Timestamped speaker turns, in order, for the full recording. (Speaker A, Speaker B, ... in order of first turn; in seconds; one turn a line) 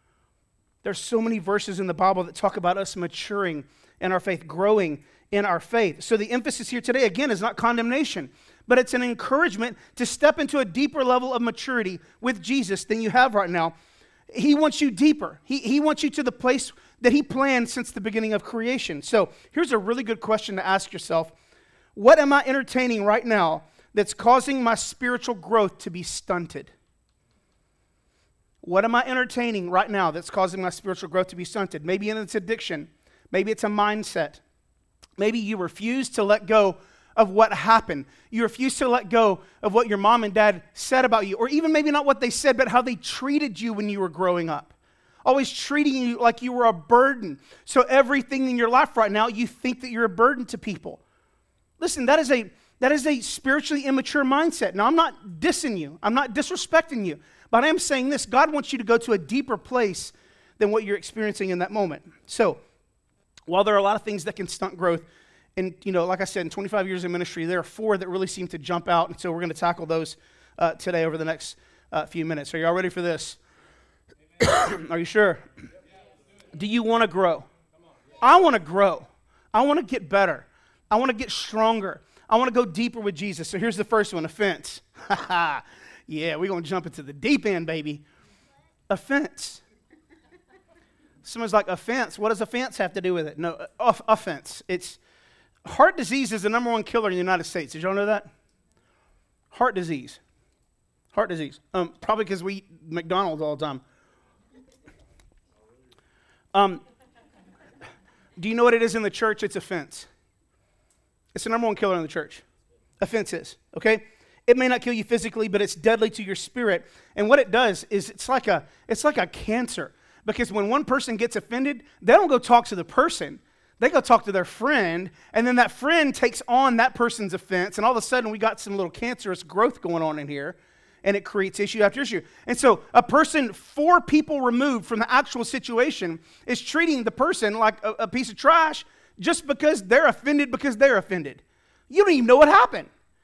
Speaker A: 0.8-13.8
Speaker A: 14.3-21.3
Speaker A: 21.9-26.7
Speaker A: 28.6-34.4
Speaker A: 35.2-51.0
Speaker A: 51.8-62.6
Speaker A: 63.5-73.4
Speaker A: 74.4-75.7
Speaker A: 76.5-77.5
Speaker A: 78.2-88.1
Speaker A: 88.9-89.6
Speaker A: 91.2-95.0
Speaker A: 95.7-98.3
Speaker A: 99.5-100.2
Speaker A: 101.1-103.8
Speaker A: 106.5-106.8
Speaker A: 108.4-110.1
Speaker A: 111.3-112.4
Speaker A: 113.0-142.9